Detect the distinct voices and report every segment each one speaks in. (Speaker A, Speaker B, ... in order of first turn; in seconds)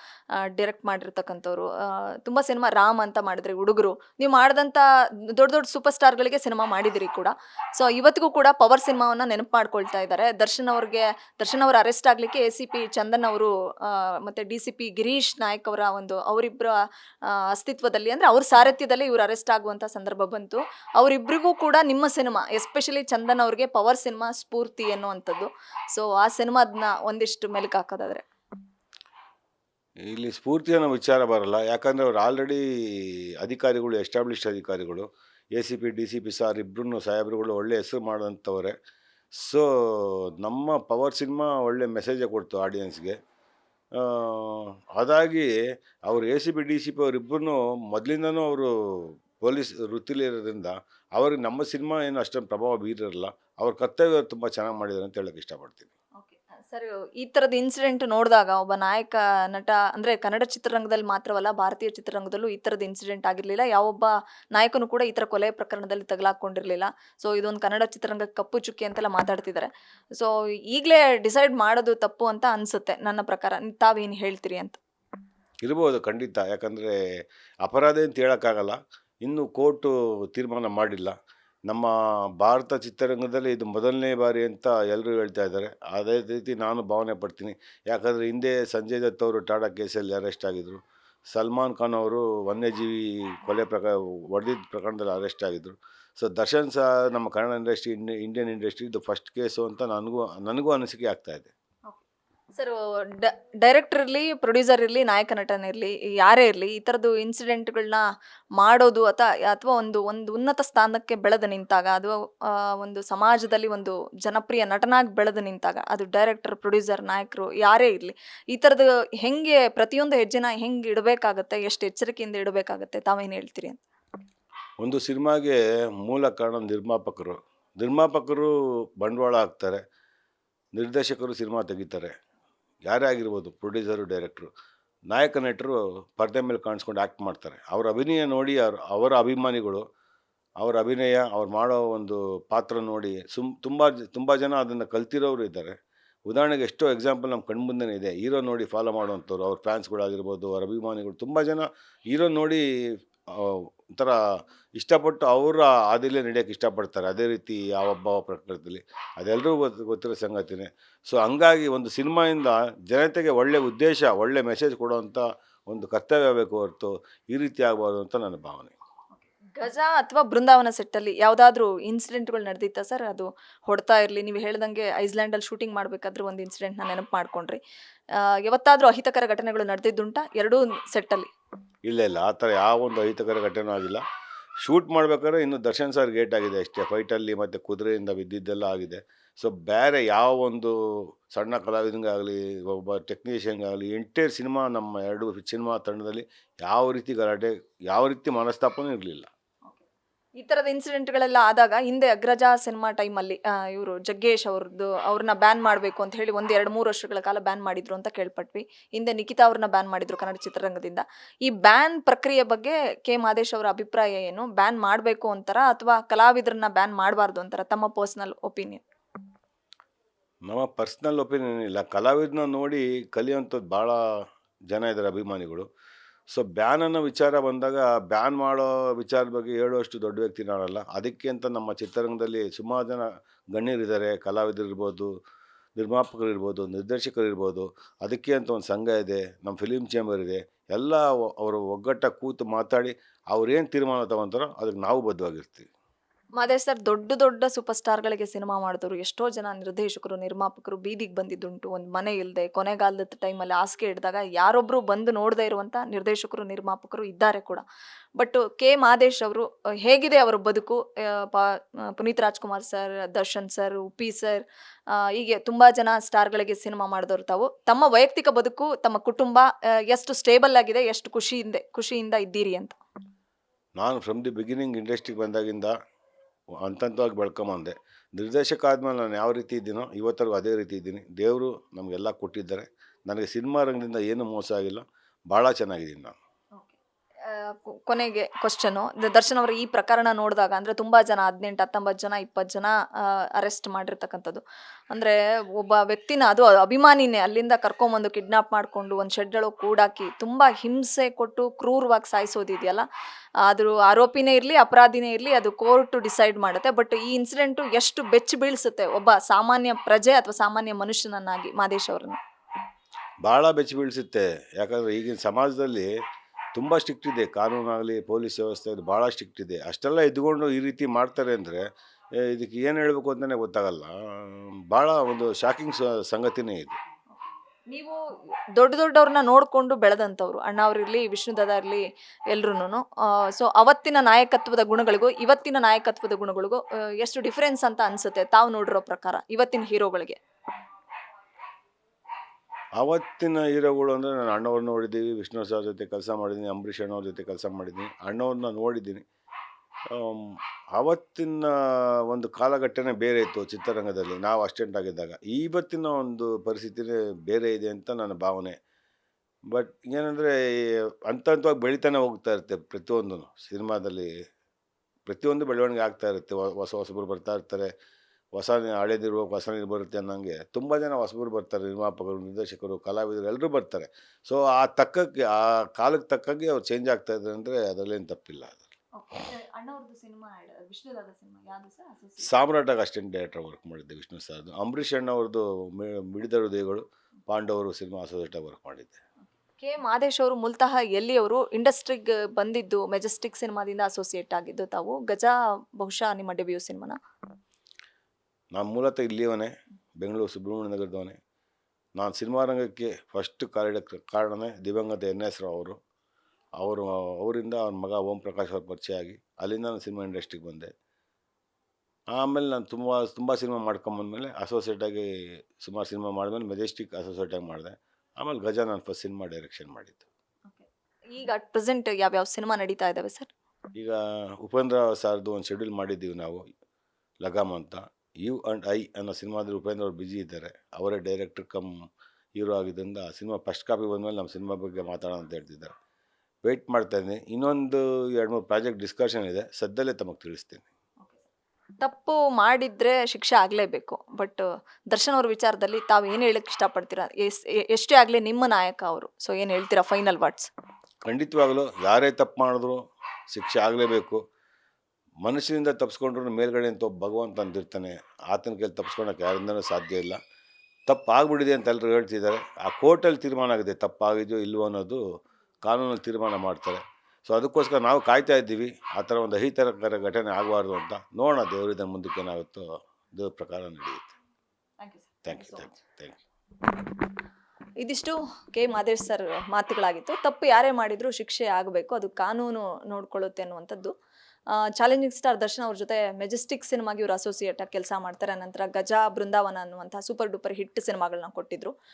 Speaker A: 0.4-28.3, 56.2-74.8, 102.5-108.0, 108.6-123.8, 169.5-177.6, 178.2-181.3, 200.4-218.8, 246.4-257.6, 258.2-272.8, 286.6-302.8, 303.4-312.2, 327.7-328.0, 328.6-340.2, 378.9-382.4, 389.6-397.0, 420.5-423.3, 441.0-441.3, 441.8-450.5, 474.8-475.7, 477.8-483.9, 484.5-491.7
Speaker B: 30.1-38.8, 39.4-43.2, 44.0-45.5, 46.1-55.9, 75.6-81.2, 81.7-101.5, 124.8-129.8, 130.8-132.1, 132.9-134.5, 135.1-139.8, 140.6-145.8, 146.3-152.6, 153.3-154.2, 154.8-168.8, 181.9-184.0, 184.6-199.3, 220.5-224.0, 224.7-225.7, 226.3-235.1, 235.8-245.7, 273.8-275.7, 276.6-286.1, 313.2-315.9, 316.5-321.6, 322.2-326.8, 342.8-349.0, 349.9-358.6, 359.5-364.1, 365.1-367.7, 368.3-378.7, 382.2-389.0, 398.5-401.2, 402.0-405.8, 406.6-410.7, 412.1-420.1, 423.8-426.4, 427.2-431.7, 432.4-435.7, 436.4-440.6, 451.1-452.8, 453.3-454.2, 455.2-460.2, 460.9-465.0, 465.6-474.1, 475.2-476.2